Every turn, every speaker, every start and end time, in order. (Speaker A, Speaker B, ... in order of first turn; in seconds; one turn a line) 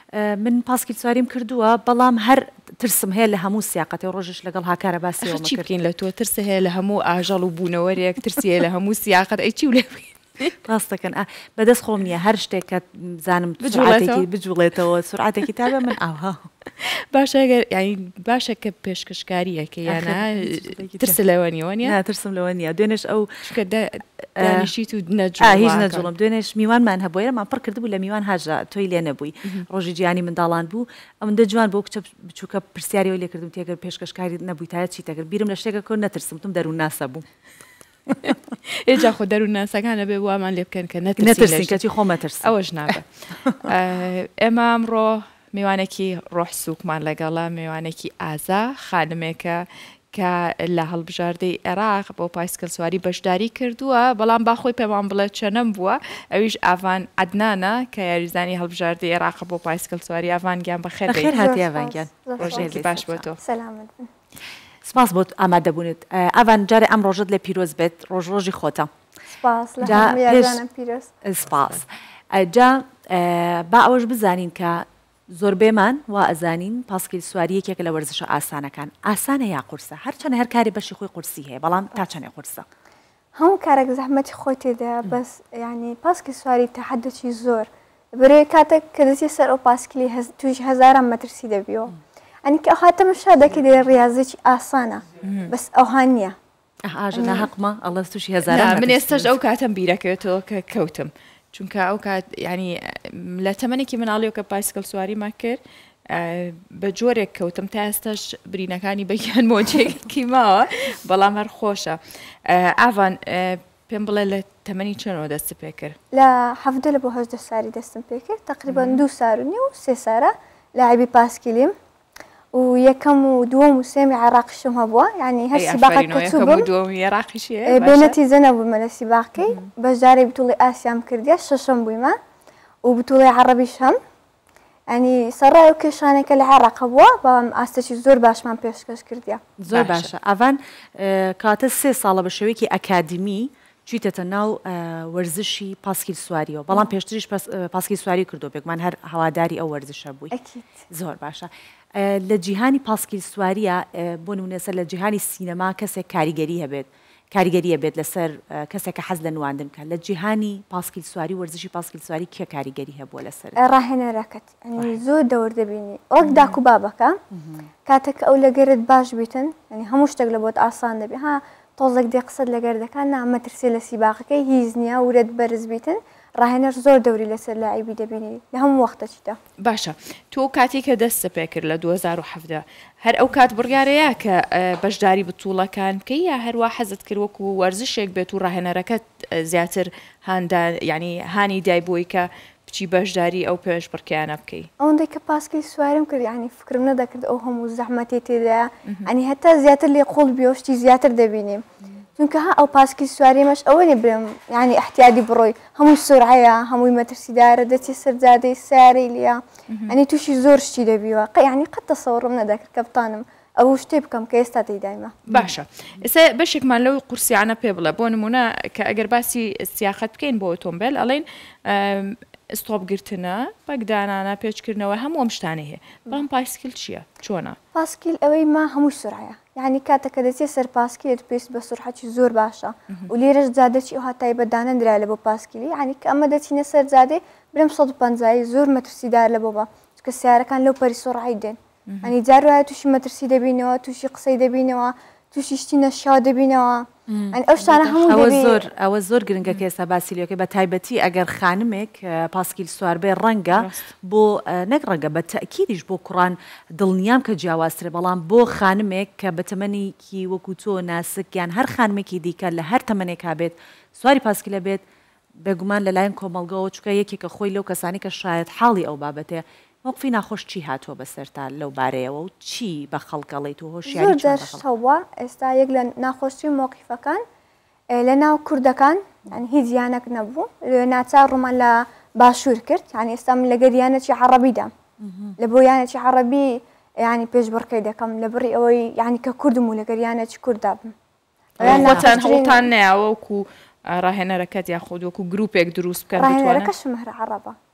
Speaker A: 0.1-5.7
Speaker B: 5.2-10.6
Speaker A: 10.6-16.5
Speaker B: 13.6-14.3
Speaker B: 16.8-22.0
Speaker A: 19.9-21.2
Speaker A: 21.8-23.5
Speaker B: 23.4-26.1
Speaker A: 24.4-24.7
Speaker A: 25.4-37.2
Speaker B: 38.7-41.9
Speaker A: 41.2-42.9
Speaker B: 42.4-61.4
Speaker A: 61.1-63.3
Speaker C: 61.4-62.8
Speaker B: 62.4-63.4
Speaker C: 63.4-64.1
Speaker A: 64.8-68.9
Speaker C: 69.3-71.1
Speaker A: 69.8-70.6
Speaker A: 71.2-82.7
Speaker C: 83.4-91.9
Speaker C: 92.5-96.3
Speaker B: 95.2-95.5
Speaker A: 96.9-99.3
Speaker C: 97.2-97.5
Speaker B: 98.5-116.0
Speaker C: 116.1-121.7
Speaker B: 118.7-119.0
Speaker C: 122.5-126.7
Speaker B: 125.5-128.2
Speaker C: 127.7-132.2
Speaker B: 129.4-129.7
Speaker C: 132.8-134.0
Speaker C: 134.9-139.4
Speaker A: 139.6-150.3
Speaker B: 139.7-140.1
Speaker C: 150.3-150.8
Speaker A: 150.9-163.6
Speaker C: 163.6-167.2
Speaker B: 166.2-166.6
Speaker A: 167.3-167.7
Speaker C: 167.9-179.4
Speaker B: 179.6-194.7
Speaker C: 194.8-201.6
Speaker C: 202.2-215.2
Speaker B: 209.7-210.0
Speaker B: 215.3-227.6
Speaker C: 227.7-248.6
Speaker B: 241.9-242.2
Speaker A: 247.1-247.4
Speaker B: 247.6-248.2
Speaker A: 248.1-264.8
Speaker B: 253.5-253.9
Speaker A: 265.4-274.6
Speaker C: 273.9-277.2
Speaker C: 277.9-284.7
Speaker A: 285.0-285.4
Speaker C: 285.4-290.9
Speaker C: 291.6-292.7
Speaker A: 291.6-292.1
Speaker B: 291.6-296.7
Speaker C: 296.1-297.6